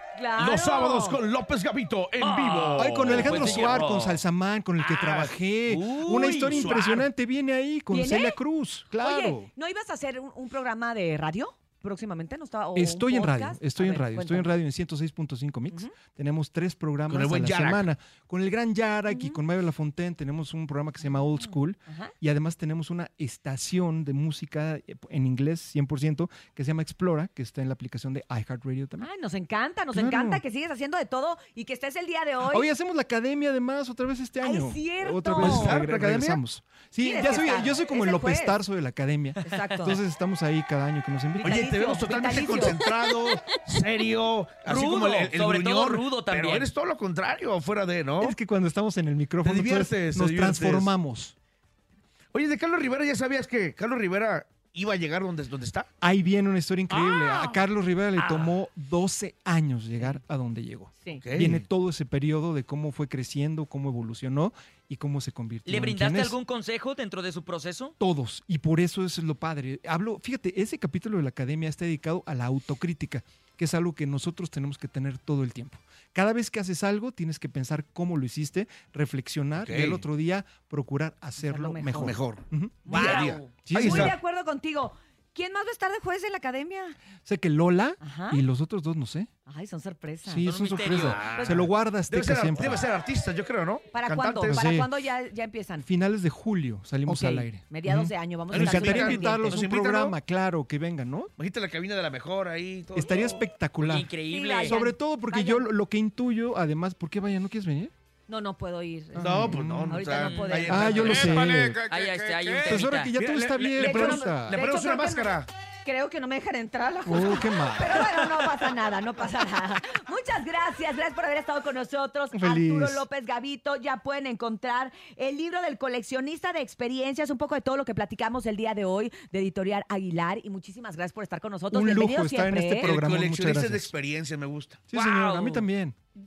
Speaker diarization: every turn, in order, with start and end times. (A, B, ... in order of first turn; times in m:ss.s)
0:00.2-0:01.2 A
0:00.4-0:03.8 B
0:02.2-0:04.2 C
0:02.8-0:09.5 D
0:04.8-0:05.3 B
0:05.7-0:06.7 C
0:06.5-0:07.1 B
0:07.9-0:08.4 A
0:09.0-0:14.5 A
0:12.8-0:29.1 D
0:17.1-0:17.9 B
0:19.1-0:19.4 A
0:21.4-0:22.1 A
0:29.0-0:32.7 A
0:29.9-0:30.4 D
0:32.4-0:41.7 D
0:34.4-0:35.8 A
0:35.4-0:36.4 B
0:37.0-0:38.6 A
0:39.4-0:40.0 A
0:41.4-0:42.8 A
0:41.4-0:48.4 B
0:44.6-0:46.7 C
0:48.2-0:51.4 D
0:49.4-0:50.9 B
0:52.3-0:55.9 B
0:56.0-1:06.4 D
0:56.9-0:57.6 C
0:58.2-0:58.6 C
1:01.2-1:01.6 B
1:05.7-1:07.9 C
1:08.0-1:23.0 D
1:19.6-1:20.0 B
1:21.4-1:22.2 A
1:21.9-1:24.2 B
1:22.8-1:27.0 A
1:22.9-1:23.5 C
1:23.6-1:24.1 D
1:27.2-1:29.3 D
1:28.0-1:28.4 A
1:29.5-1:30.5 A
1:30.2-1:32.9 D
1:30.5-1:31.6 C
1:30.9-1:34.6 B
1:33.9-1:35.9 A
1:34.5-1:34.9 D
1:35.8-1:41.3 D
1:37.1-1:39.6 A
1:38.5-1:40.2 B
1:41.4-1:43.4 B
1:42.9-1:44.1 D
1:43.8-1:44.8 C
1:44.3-1:45.6 A
1:44.6-1:47.9 D
1:48.3-1:51.3 A
1:49.1-1:50.1 D
1:49.2-1:55.5 B
1:50.2-1:53.1 C
1:50.7-1:51.8 D
1:52.6-1:54.6 D
1:53.8-2:12.9 A
1:57.1-1:58.2 D
2:02.3-2:03.0 D
2:11.7-2:13.9 D
2:12.8-2:14.9 B
2:14.9-2:16.0 D
2:14.9-2:15.7 C